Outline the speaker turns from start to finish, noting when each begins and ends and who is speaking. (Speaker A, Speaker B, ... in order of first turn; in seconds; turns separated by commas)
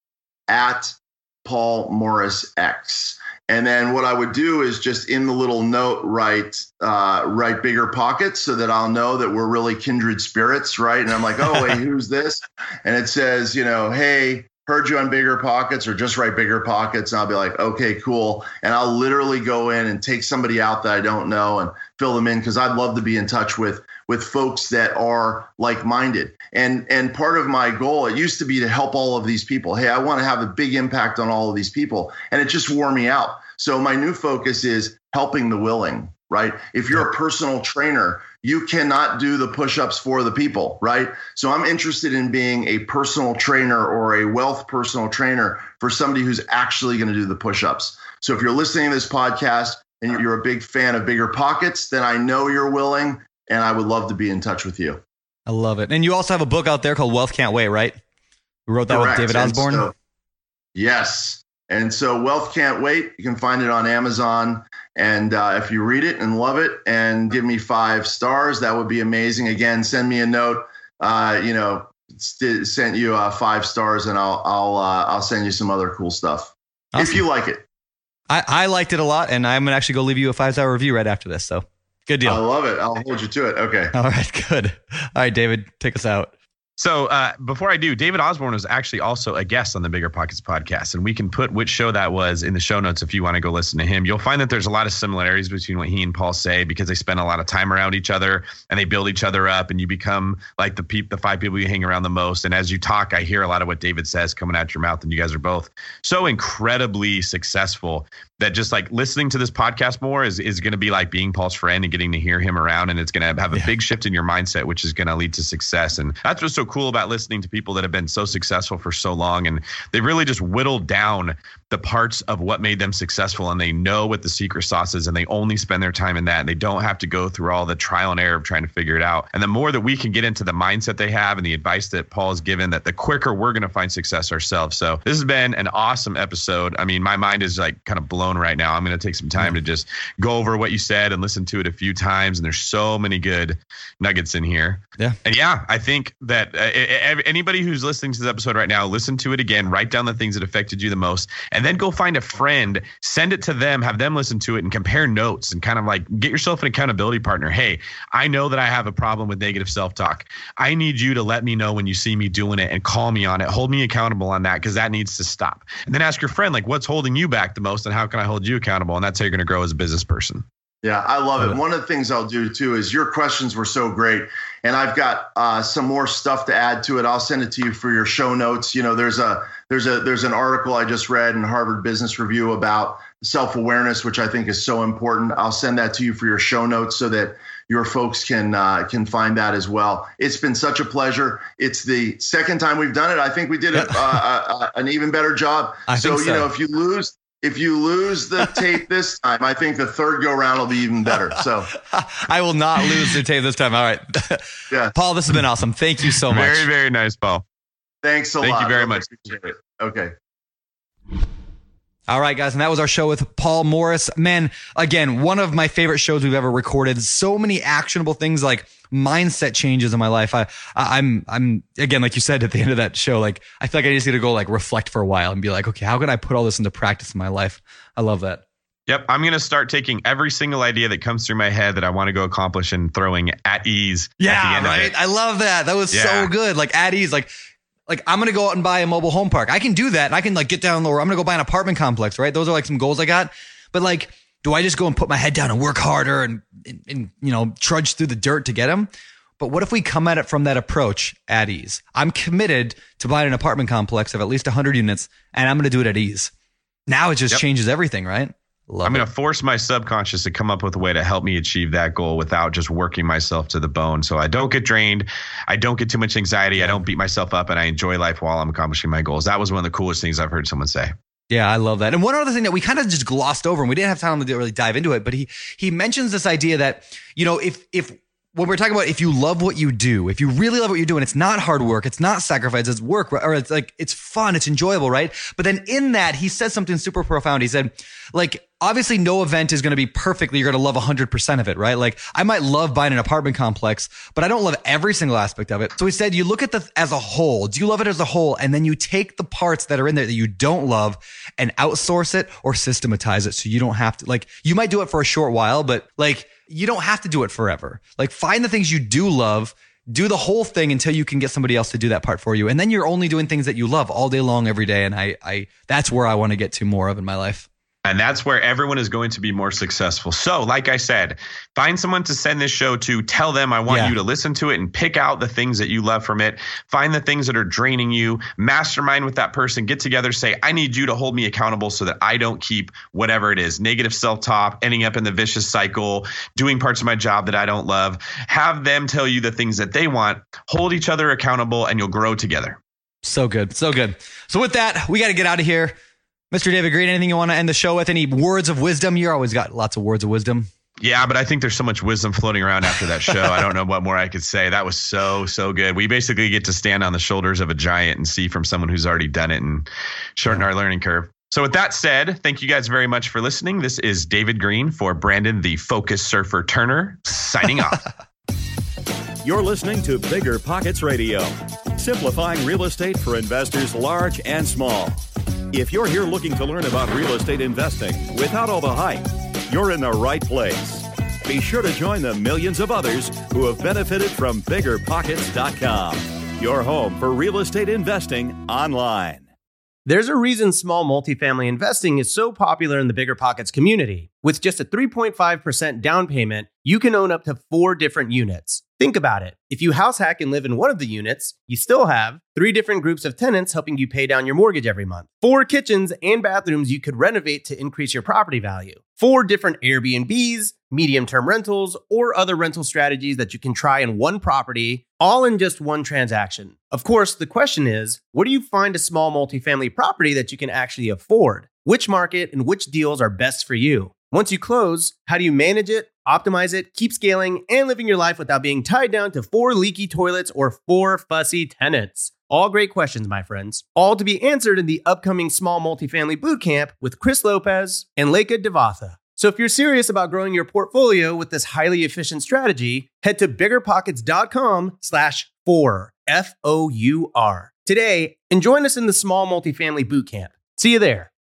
Speaker A: 0.5-55.0, Speaker B: 55.5-58.0, Speaker B: 58.7-59.9, Speaker A: 58.9-59.9, Speaker A: 60.7-77.6, Speaker B: 76.9-77.2, Speaker B: 78.3-82.4, Speaker A: 82.2-83.9, Speaker B: 83.9-86.3, Speaker C: 86.8-170.4, Speaker A: 170.8-201.7, Speaker B: 195.9-196.5, Speaker B: 201.9-206.7, Speaker A: 204.7-204.9, Speaker C: 206.3-207.4, Speaker A: 208.0-210.1, Speaker C: 208.4-209.1, Speaker B: 212.1-228.4, Speaker C: 228.9-234.9, Speaker B: 234.2-237.3, Speaker C: 235.9-236.3, Speaker B: 237.9-256.3, Speaker B: 256.9-259.1, Speaker C: 258.8-270.9, Speaker B: 271.3-317.5, Speaker C: 317.8-342.6, Speaker B: 323.7-323.9, Speaker B: 343.0-345.7, Speaker B: 346.3-350.5, Speaker C: 350.8-367.8, Speaker D: 369.2-389.2, Speaker E: 389.9-451.1